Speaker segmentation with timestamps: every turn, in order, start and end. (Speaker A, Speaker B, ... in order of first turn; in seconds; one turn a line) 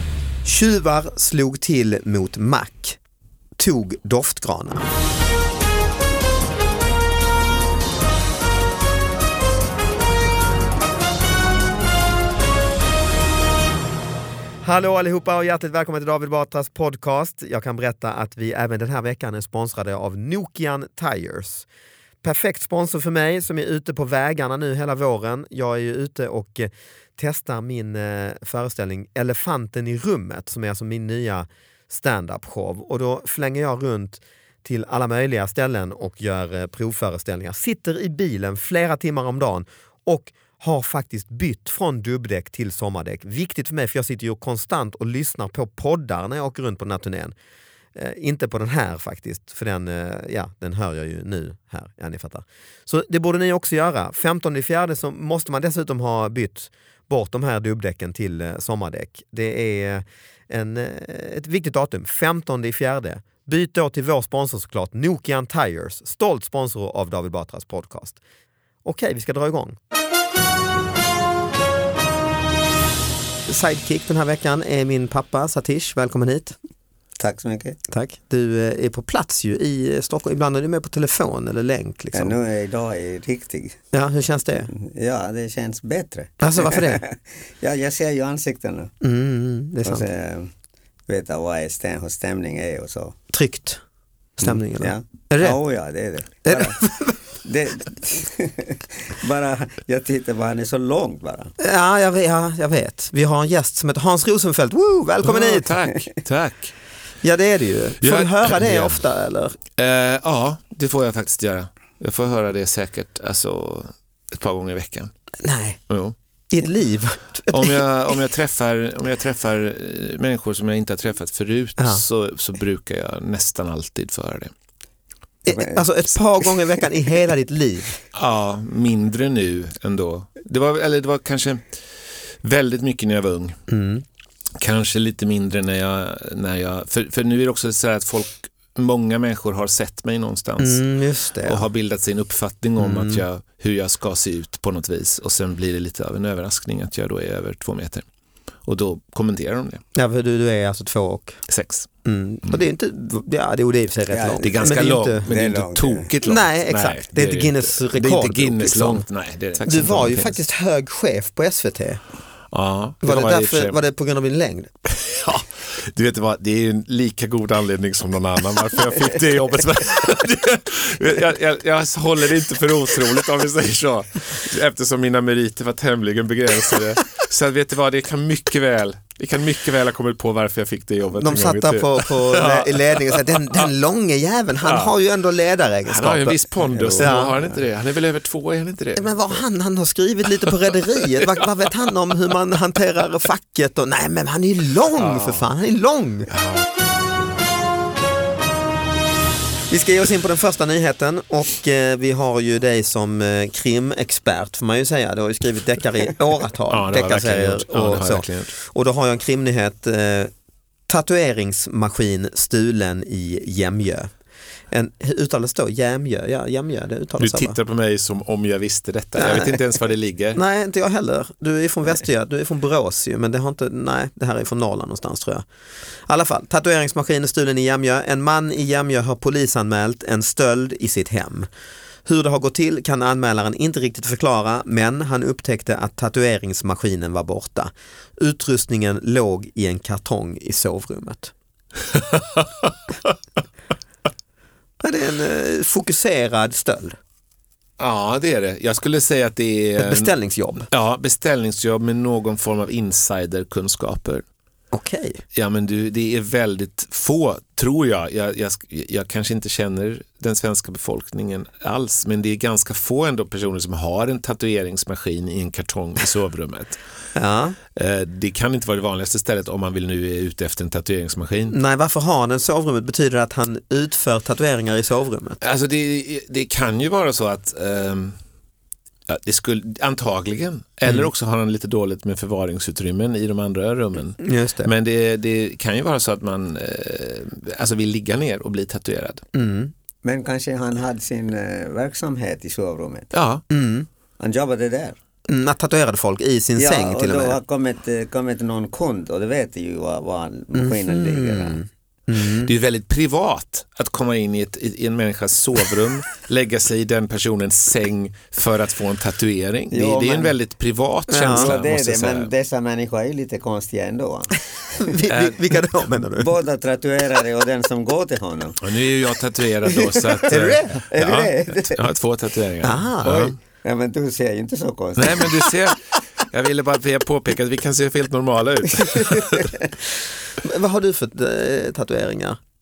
Speaker A: 0.5-3.0
Speaker A: 3.6-4.9
Speaker A: 14.6-21.7
Speaker A: 22.2-47.3
Speaker A: 48.0-68.2
Speaker A: 68.8-69.8
Speaker A: 73.5-76.6
Speaker B: 77.2-77.8
Speaker A: 77.9-82.4
Speaker B: 82.1-83.8
Speaker A: 83.9-84.7
Speaker B: 84.7-88.9
Speaker A: 86.4-87.0
Speaker A: 89.0-90.1
Speaker B: 89.8-90.5
Speaker B: 91.1-93.2
Speaker A: 93.3-93.8
Speaker B: 94.4-96.8
Speaker A: 94.4-95.6
Speaker A: 96.5-97.2
Speaker B: 97.4-101.5
Speaker A: 101.6-105.8
Speaker C: 105.2-106.7
Speaker A: 107.2-109.6
Speaker C: 108.0-109.0
Speaker C: 109.8-115.1
Speaker A: 115.4-115.8
Speaker C: 115.9-116.2
Speaker A: 116.5-117.8
Speaker C: 117.5-124.5
Speaker A: 121.8-122.0
Speaker A: 125.5-128.0
Speaker B: 125.5-125.8
Speaker C: 128.1-131.6
Speaker C: 132.4-133.6
Speaker A: 133.7-134.0
Speaker C: 134.6-140.8
Speaker A: 140.6-141.6
Speaker C: 141.4-148.1
Speaker A: 142.8-143.2
Speaker C: 148.7-149.8
Speaker A: 149.9-151.4
Speaker C: 151.5-151.9
Speaker A: 152.1-155.3
Speaker B: 154.1-156.1
Speaker C: 154.4-160.4
Speaker A: 156.2-159.1
Speaker A: 159.6-162.0
Speaker C: 162.5-163.8
Speaker A: 163.0-164.7
Speaker C: 164.9-183.7
Speaker A: 181.2-186.4
Speaker C: 184.6-184.9
Speaker C: 185.8-189.4
Speaker B: 186.7-187.5
Speaker A: 186.9-187.3
Speaker A: 189.0-196.3
Speaker C: 195.0-195.5
Speaker C: 196.3-196.7
Speaker A: 199.7-210.3
Speaker C: 206.7-208.5
Speaker A: 210.9-214.1
Speaker A: 214.7-217.6
Speaker C: 217.2-220.4
Speaker A: 219.2-219.6
Speaker A: 220.3-225.4
Speaker A: 226.1-231.5
Speaker A: 232.1-241.3
Speaker C: 242.2-242.4
Speaker A: 244.8-247.0
Speaker C: 247.8-250.1
Speaker A: 249.8-250.7
Speaker C: 250.7-254.2
Speaker A: 254.7-255.2
Speaker C: 255.3-266.8
Speaker A: 267.1-267.6
Speaker C: 267.8-271.6
Speaker A: 271.5-275.4
Speaker C: 275.4-278.1
Speaker C: 279.1-289.2
Speaker A: 284.2-284.7
Speaker A: 289.3-289.7
Speaker B: 290.0-293.1
Speaker C: 293.1-293.4
Speaker A: 293.5-293.9
Speaker B: 294.2-295.0
Speaker A: 295.3-297.4
Speaker B: 296.6-301.6
Speaker A: 300.5-302.5
Speaker C: 302.3-312.3
Speaker B: 309.7-310.4
Speaker A: 311.1-311.5
Speaker B: 311.3-314.4
Speaker A: 314.8-316.4
Speaker C: 315.1-315.6
Speaker B: 316.2-318.6
Speaker C: 318.6-323.4
Speaker B: 319.6-321.9
Speaker A: 320.3-320.7
Speaker A: 322.6-323.4
Speaker B: 323.6-325.6
Speaker C: 325.0-329.6
Speaker B: 328.9-329.6
Speaker A: 330.4-332.4